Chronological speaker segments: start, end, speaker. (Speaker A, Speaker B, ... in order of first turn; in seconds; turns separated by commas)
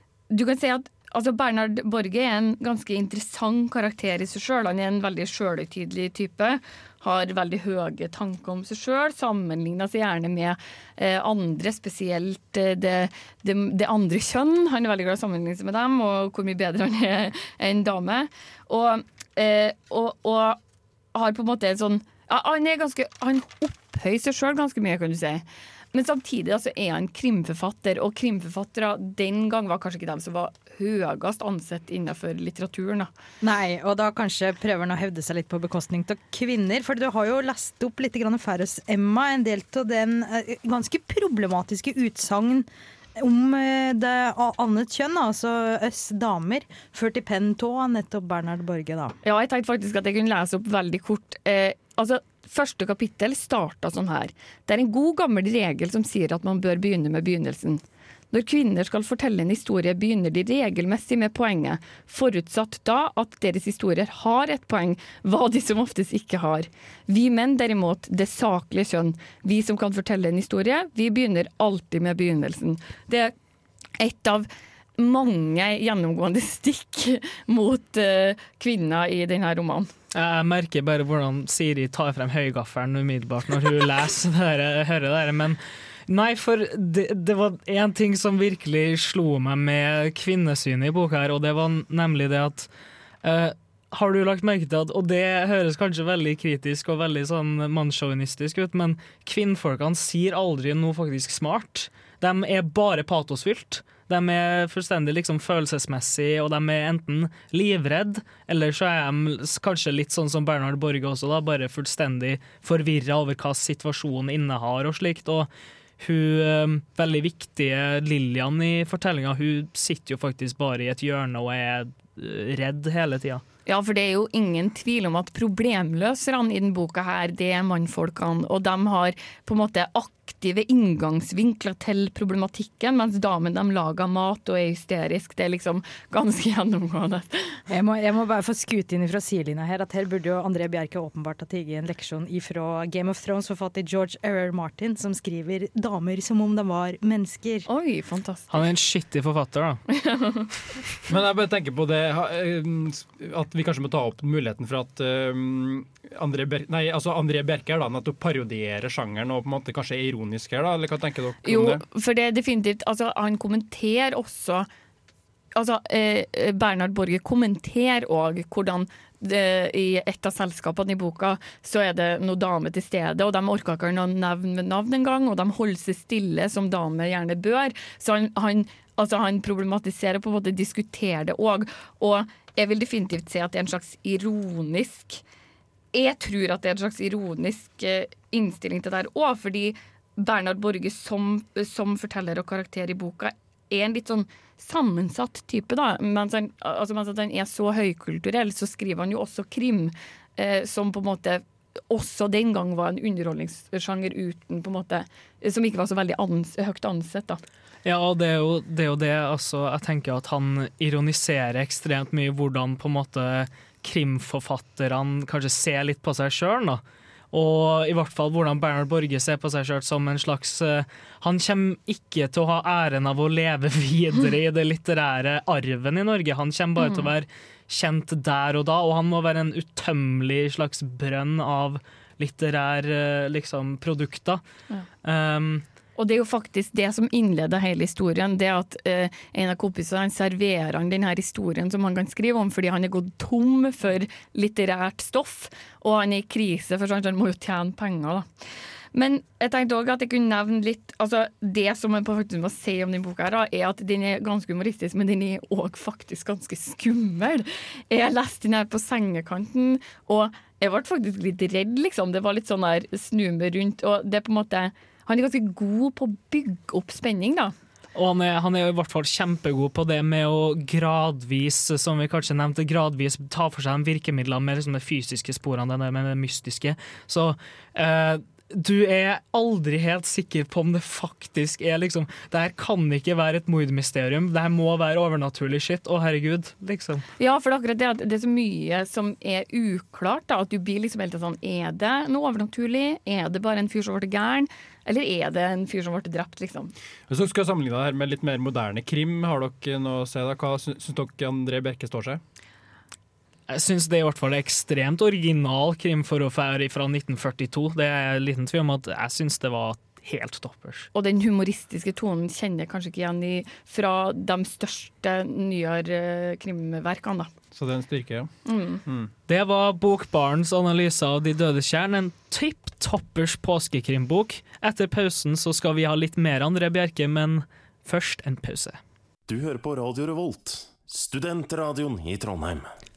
Speaker A: 0.3-20.6, Speaker A: 21.1-33.1, Speaker B: 33.4-49.2, Speaker A: 49.2-73.3, Speaker A: 74.0-79.9, Speaker C: 80.1-92.7, Speaker C: 93.2-115.5, Speaker C: 116.0-123.4, Speaker A: 123.7-137.6, Speaker B: 137.7-147.7, Speaker A: 147.7-148.7, Speaker C: 148.5-149.8, Speaker A: 149.9-150.5, Speaker D: 151.1-161.8, Speaker A: 161.4-164.7, Speaker A: 165.5-185.2, Speaker A: 185.9-207.4, Speaker C: 207.8-234.4, Speaker A: 226.8-227.1, Speaker C: 235.0-235.6, Speaker A: 235.9-248.2, Speaker A: 248.9-267.5, Speaker C: 267.9-287.0, Speaker A: 287.2-296.7, Speaker D: 297.1-302.2, Speaker C: 303.5-310.9, Speaker A: 310.9-317.3, Speaker D: 317.5-318.3, Speaker A: 318.4-318.8, Speaker D: 318.9-319.1, Speaker C: 319.3-328.8, Speaker E: 329.3-332.7